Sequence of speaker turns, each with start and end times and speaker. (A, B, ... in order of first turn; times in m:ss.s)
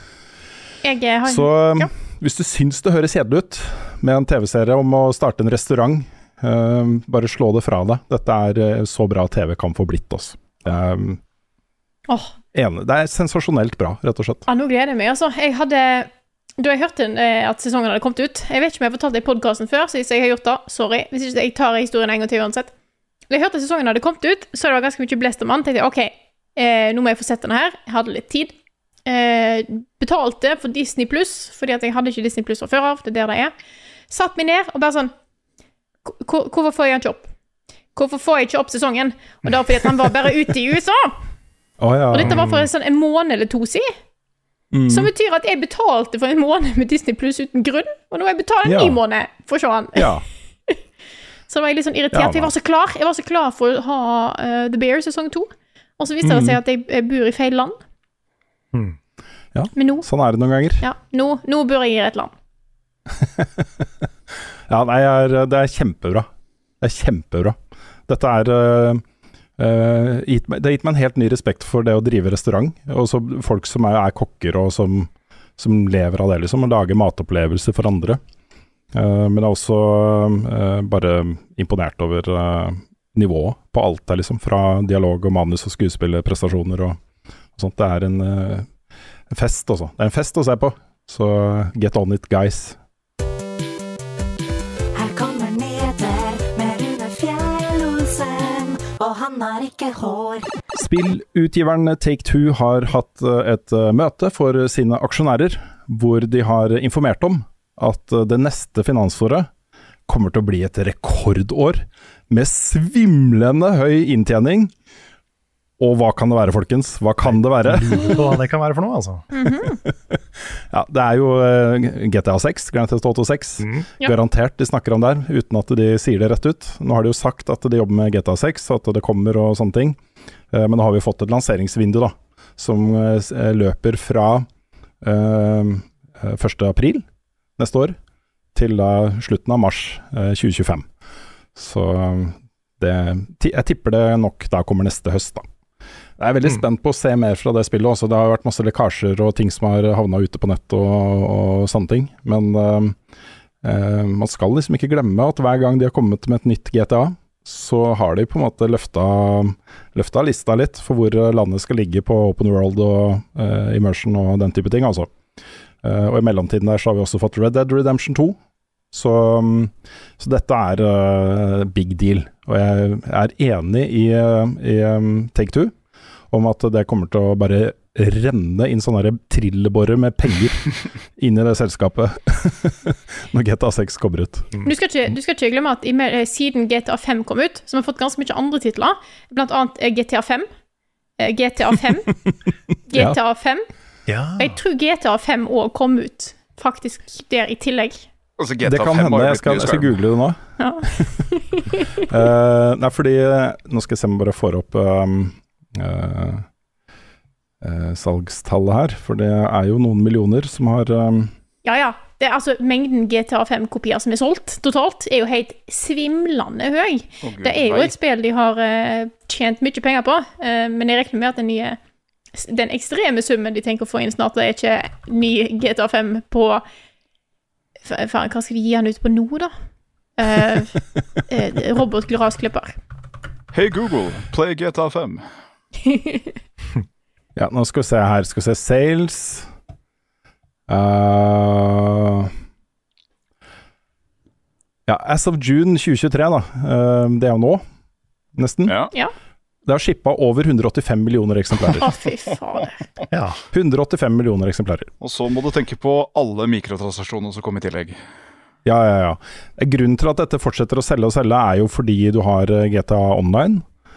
0:00.8-0:01.9 A
0:01.2-0:11.2 B
0:12.5-0:14.4 B
0:14.5-0:22.7 A
0:23.3-0:28.5 A
0:29.0-0:33.5 A
0:34.1-0:35.1 A
0:36.1-0:37.3 A
0:38.0-0:41.2 A
0:41.8-0:42.4 B
0:42.1-0:43.9 A
0:42.2-0:42.6 C
0:44.7-0:45.1 B
0:44.9-0:50.1 A
0:48.6-0:49.0 B
0:50.0-0:50.2 B
0:51.5-0:57.8 A
0:52.1-0:52.5 B
0:56.2-0:56.6 B
0:59.5-1:00.8 B
0:59.8-1:00.1 A
1:00.8-1:02.3 A
1:03.1-1:03.9 B
1:04.7-1:06.3 B
1:06.8-1:07.6 B
1:08.1-1:09.0 B
1:09.6-1:18.2 B
1:18.9-1:27.0 B
1:27.6-1:28.7 B
1:29.3-1:32.8 B
1:34.9-1:40.5 D
1:40.7-1:49.5 B
1:50.1-1:54.7 B
1:55.8-1:58.4 B
1:57.2-1:59.2 C
1:59.3-1:59.8 A
1:59.5-2:10.0 B
2:03.6-2:03.9 C
2:10.5-2:14.5 B
2:15.0-2:17.0 B
2:17.6-2:18.0 B
2:18.5-2:20.9 B
2:21.5-2:25.4 B
2:26.2-2:33.0 B
2:33.6-2:45.1 B
2:45.8-2:48.4 B
2:48.9-2:55.7 B
2:56.3-3:04.5 B
3:04.6-3:10.5 A
3:11.2-3:12.1 A
3:12.9-3:13.6 A
3:12.9-3:13.2 B
3:14.1-3:14.6 C
3:14.4-3:18.0 A
3:18.4-3:20.0 E
3:18.6-3:20.4 B
3:20.6-3:22.0 A
3:22.0-3:26.4 B
3:27.6-3:31.3 B
3:31.6-3:41.8 A
3:37.2-3:37.9 E
3:42.3-3:46.6 A
3:47.8-3:49.5 A
3:50.2-3:52.7 A
3:53.5-3:55.2 E
3:55.8-3:56.3 A
3:57.4-3:59.5 B
4:00.7-4:02.3 B
4:04.9-4:07.6 B
4:08.3-4:08.7 B
4:09.6-4:11.9 B
4:11.7-4:12.8 A
4:13.1-4:13.4 C
4:13.5-4:14.9 B
4:15.0-4:18.0 E
4:18.6-4:23.6 B